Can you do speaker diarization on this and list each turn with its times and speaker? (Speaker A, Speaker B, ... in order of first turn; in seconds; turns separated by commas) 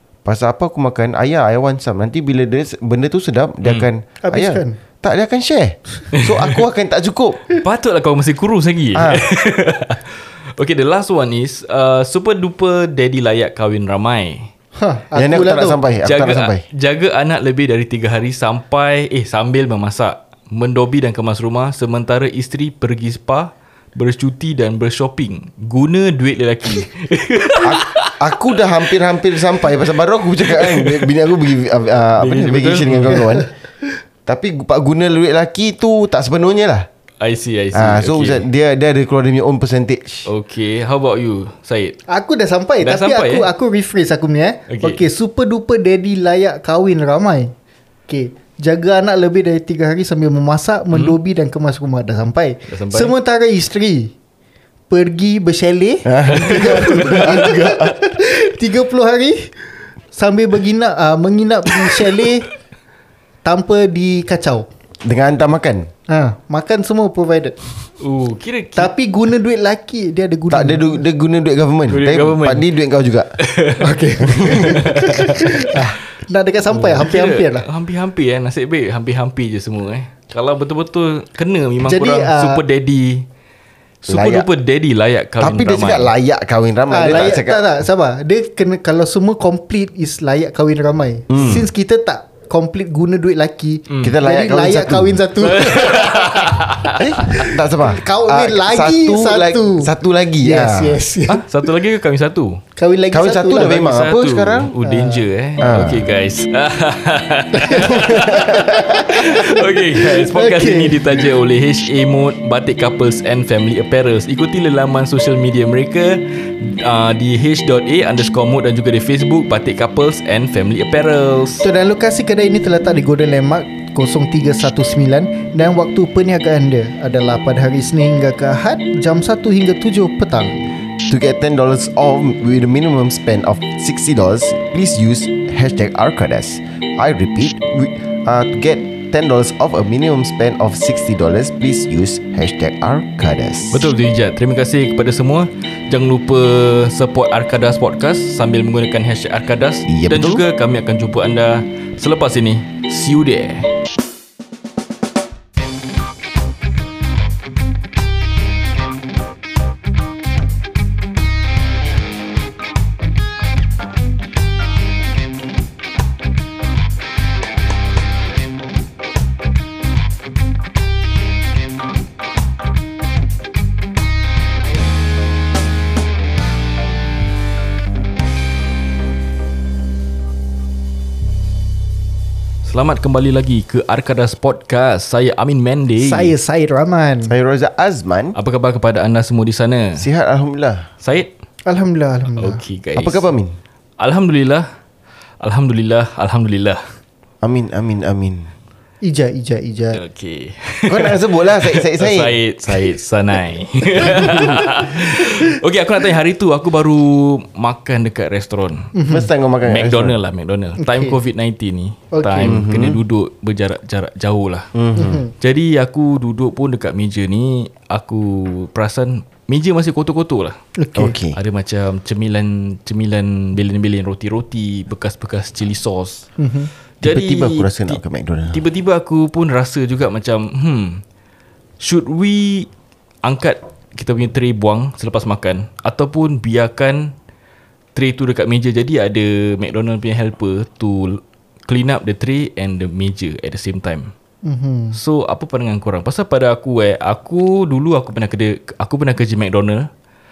Speaker A: 0.2-7.4, Speaker B: 4.2-4.8, Speaker C: 6.1-6.6, Speaker C: 7.5-14.5, Speaker A: 8.9-9.2, Speaker B: 14.8-15.8, Speaker A: 15.1-16.6, Speaker C: 16.0-28.3, Speaker A: 27.6-33.5, Speaker C: 30.5-31.1, Speaker C: 32.2-33.3, Speaker A: 34.2-36.9, Speaker C: 37.2-38.5, Speaker A: 37.7-40.3, Speaker C: 40.3-42.0, Speaker B: 42.1-47.5, Speaker C: 42.8-43.5, Speaker C: 44.7-45.0, Speaker B: 48.1-54.1, Speaker C: 50.9-51.2, Speaker C: 52.7-53.1, Speaker B: 54.9-59.5, Speaker A: 56.0-58.0, Speaker C: 56.3-57.5, Speaker B: 60.1-62.5, Speaker B: 63.4-64.7, Speaker A: 65.0-65.9, Speaker B: 66.1-67.6, Speaker C: 68.0-68.9, Speaker B: 68.8-71.0, Speaker A: 70.5-73.3, Speaker C: 71.9-72.7, Speaker C: 73.4-75.8, Speaker B: 73.8-77.7, Speaker A: 74.2-74.9, Speaker C: 76.7-83.2, Speaker B: 81.8-82.6, Speaker C: 84.0-86.1, Speaker A: 84.1-84.5, Speaker A: 85.4-87.7, Speaker B: 86.9-96.5, Speaker A: 91.3-91.6, Speaker C: 93.9-94.2, Speaker A: 94.0-95.4, Speaker C: 95.4-97.5, Speaker A: 96.9-101.0, Speaker B: 97.3-101.5, Speaker C: 101.3-102.6, Speaker B: 102.8-103.8, Speaker A: 103.1-104.7, Speaker C: 103.5-121.6, Speaker B: 104.8-105.2, Speaker A: 105.6-106.1, Speaker B: 107.5-111.3, Speaker A: 108.1-108.8, Speaker B: 121.6-130.7, Speaker A: 131.1-143.9, Speaker C: 143.7-153.7, Speaker A: 149.9-150.4, Speaker C: 182.6-186.3, Speaker B: 186.0-187.3, Speaker A: 187.3-188.4, Speaker C: 188.4-190.1, Speaker A: 189.9-190.9, Speaker C: 191.0-191.3, Speaker B: 191.7-192.6, Speaker C: 192.4-193.2, Speaker A: 192.9-193.6, Speaker C: 194.0-194.7, Speaker C: 195.4-196.9, Speaker A: 197.4-198.5, Speaker B: 199.0-200.0, Speaker C: 199.9-208.9, Speaker A: 200.9-203.0, Speaker B: 204.1-204.7, Speaker A: 204.2-204.6, Speaker B: 208.9-209.3, Speaker A: 209.1-210.2, Speaker C: 209.6-214.8, Speaker B: 210.8-211.1, Speaker B: 212.1-212.6, Speaker A: 212.4-213.0, Speaker A: 214.8-215.2, Speaker B: 214.9-215.3, Speaker C: 215.4-220.6, Speaker B: 220.8-221.2, Speaker A: 220.9-221.4, Speaker C: 221.3-226.3, Speaker B: 226.4-226.7, Speaker C: 227.0-228.0, Speaker A: 227.0-228.6, Speaker C: 228.5-231.0, Speaker C: 231.8-232.7, Speaker C: 233.2-237.1, Speaker C: 237.9-244.1, Speaker B: 244.4-245.0, Speaker C: 244.9-249.9